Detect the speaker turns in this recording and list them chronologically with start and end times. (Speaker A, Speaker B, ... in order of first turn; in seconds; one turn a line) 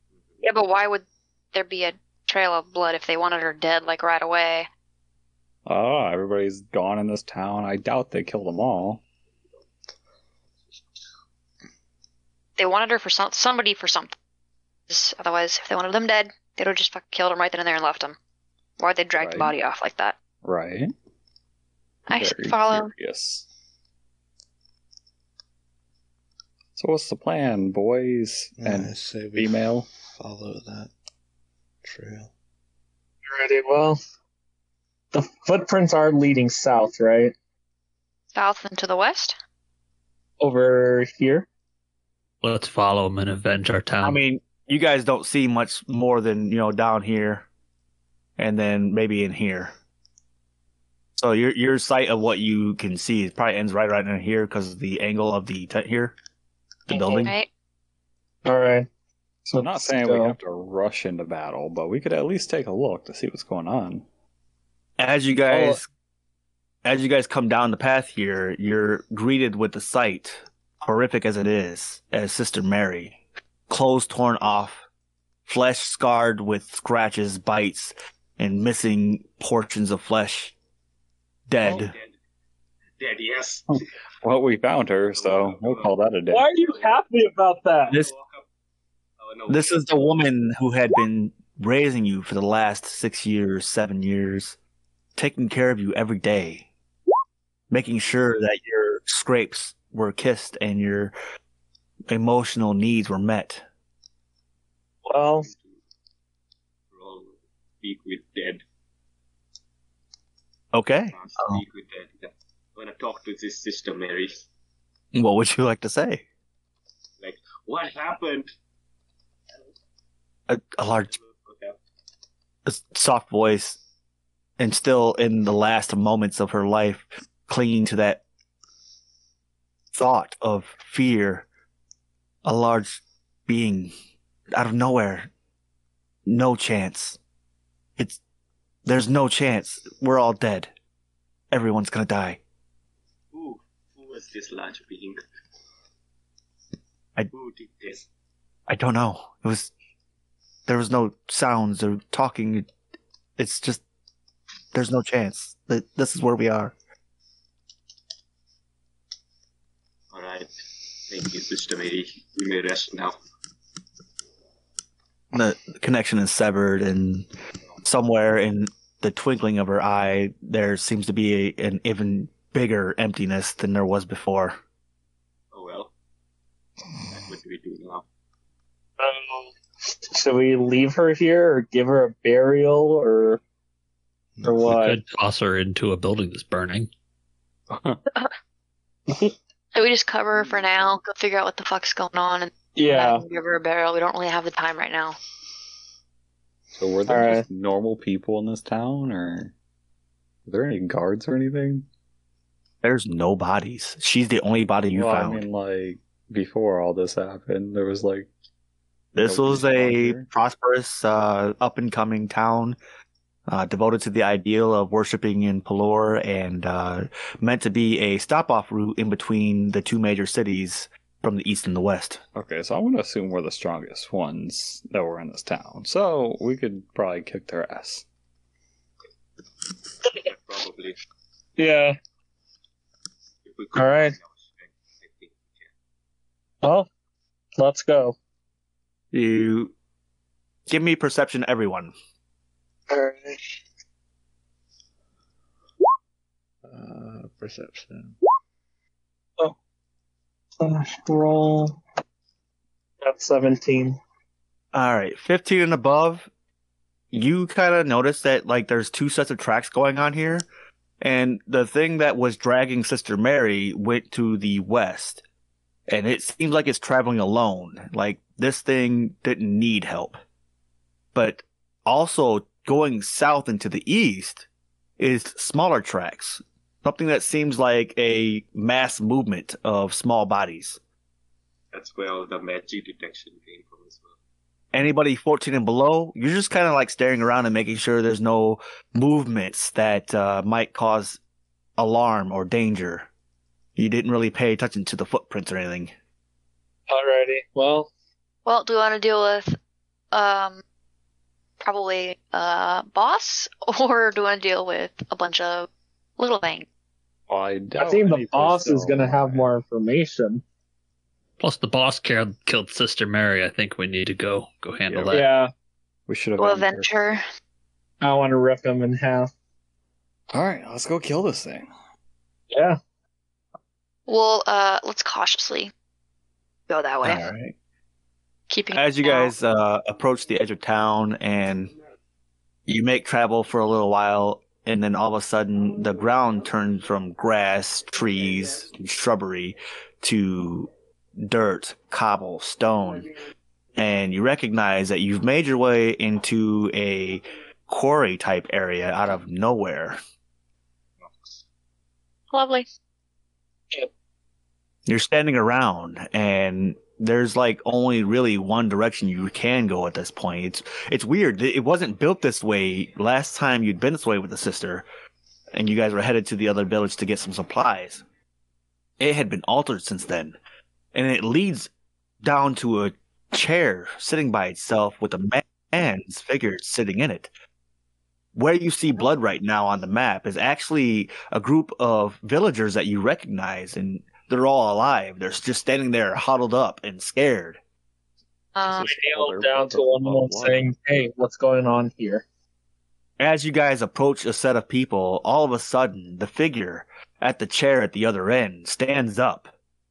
Speaker A: 0.4-4.7
Speaker B: 5.7-9.0
Speaker A: 12.6-14.1
Speaker A: 14.9-18.2
Speaker A: 18.8-20.2
Speaker B: 19.2-19.5
Speaker B: 20.4-20.9
Speaker A: 22.1-22.9
Speaker B: 22.1-23.5
Speaker B: 26.8-29.9
Speaker C: 28.6-30.9
Speaker C: 31.8-32.3
Speaker D: 33.2-34.0
Speaker D: 35.1-37.3
Speaker A: 38.4-39.4
Speaker D: 40.4-41.5
Speaker E: 42.4-44.2
Speaker F: 44.0-47.5
Speaker F: 48.4-49.7
Speaker F: 51.2-56.1
Speaker F: 56.9-57.3
Speaker A: 56.9-57.5
Speaker D: 58.5-58.9
Speaker B: 59.5-64.0
Speaker D: 59.5-60.4
Speaker F: 65.0-65.8
Speaker D: 65.5-65.8
Speaker F: 66.8-73.2
Speaker F: 73.7-74.8
Speaker F: 75.5-80.5
Speaker F: 81.5-81.9
Speaker G: 81.6-82.1
Speaker G: 83.0-83.8
Speaker B: 84.2-86.5
Speaker G: 85.1-86.0
Speaker D: 86.3-88.0
Speaker G: 86.6-86.9
Speaker G: 87.9-88.4
Speaker G: 89.2-90.2
Speaker F: 89.5-94.6
Speaker F: 95.2-96.7
Speaker F: 97.7-101.2
Speaker F: 102.1-103.6
Speaker D: 105.1-105.5
Speaker G: 105.4-105.8
Speaker G: 106.9-108.6
Speaker F: 110.7-111.6
Speaker G: 111.1-114.5
Speaker F: 115.1-116.2
Speaker G: 117.2-118.5
Speaker F: 120.5-121.1
Speaker G: 121.1-121.8
Speaker F: 122.7-123.8
Speaker F: 124.6-128.2
Speaker F: 129.9-131.5
Speaker F: 132.4-133.9
Speaker F: 134.5-135.3
Speaker F: 136.3-137.2
Speaker F: 138.9-140.7
Speaker F: 141.5-142.4
Speaker G: 143.3-145.2
Speaker G: 147.3-148.1
Speaker F: 148.7-149.7
Speaker F: 150.7-152.7
Speaker F: 153.4-153.8
Speaker F: 154.7-156.7
Speaker G: 160.1-160.5
Speaker G: 161.1-163.2
Speaker F: 165.3-167.3
Speaker F: 167.8-174.6
Speaker G: 175.5-175.9
Speaker G: 177.1-178.0
Speaker D: 179.0-183.4
Speaker C: 184.4-184.7
Speaker D: 184.4-185.0
Speaker E: 184.7-186.9
Speaker B: 187.7-188.0
Speaker A: 189.7-195.2
Speaker D: 192.8-193.2
Speaker B: 196.8-199.5
Speaker D: 197.1-197.5
Speaker B: 200.5-201.9
Speaker F: 202.8-205.4
Speaker B: 204.9-208.3
Speaker F: 209.2-212.8
Speaker B: 209.2-210.3
Speaker F: 213.5-222.2
Speaker B: 222.3-228.1
Speaker G: 230.2-231.0
Speaker D: 231.6-232.0
Speaker G: 233.4-235.7
Speaker D: 233.8-234.2
Speaker D: 236.6-236.9
Speaker D: 237.6-238.2
Speaker F: 239.1-239.7
Speaker F: 240.7-241.9
Speaker D: 242.9-243.6
Speaker C: 246.7-248.1
Speaker D: 250.6-251.8
Speaker D: 253.0-254.0
Speaker F: 254.7-256.3
Speaker F: 257.1-260.5
Speaker F: 261.0-265.2
Speaker F: 265.9-270.2
Speaker F: 271.1-274.5
Speaker F: 275.0-280.8
Speaker G: 281.7-284.1
Speaker F: 284.7-291.2
Speaker F: 291.8-293.1
Speaker F: 293.8-295.9
Speaker D: 296.9-297.9
Speaker A: 298.5-299.6
Speaker A: 300.1-300.6
Speaker A: 301.6-306.7
Speaker B: 307.3-309.5
Speaker D: 307.8-310.4
Speaker E: 311.4-315.3
Speaker B: 314.9-315.2
Speaker D: 315.1-315.5
Speaker B: 316.1-316.9
Speaker A: 316.4-317.2
Speaker D: 318.0-319.3
Speaker B: 320.3-321.7
Speaker D: 322.5-322.8
Speaker A: 324.1-325.7
Speaker A: 326.7-327.2
Speaker F: 327.0-327.5
Speaker A: 328.5-329.3
Speaker F: 328.7-331.7
Speaker F: 332.7-343.1
Speaker F: 343.8-350.0
Speaker G: 351.0-351.4
Speaker A: 352.3-352.7
Speaker F: 354.9-364.9
Speaker F: 365.5-368.0
Speaker F: 369.0-370.4
Speaker F: 370.9-371.7
Speaker F: 372.2-377.3
Speaker F: 378.4-387.6
Speaker A: 388.6-388.9
Speaker B: 388.8-390.6
Speaker D: 388.8-392.2
Speaker F: 393.2-399.5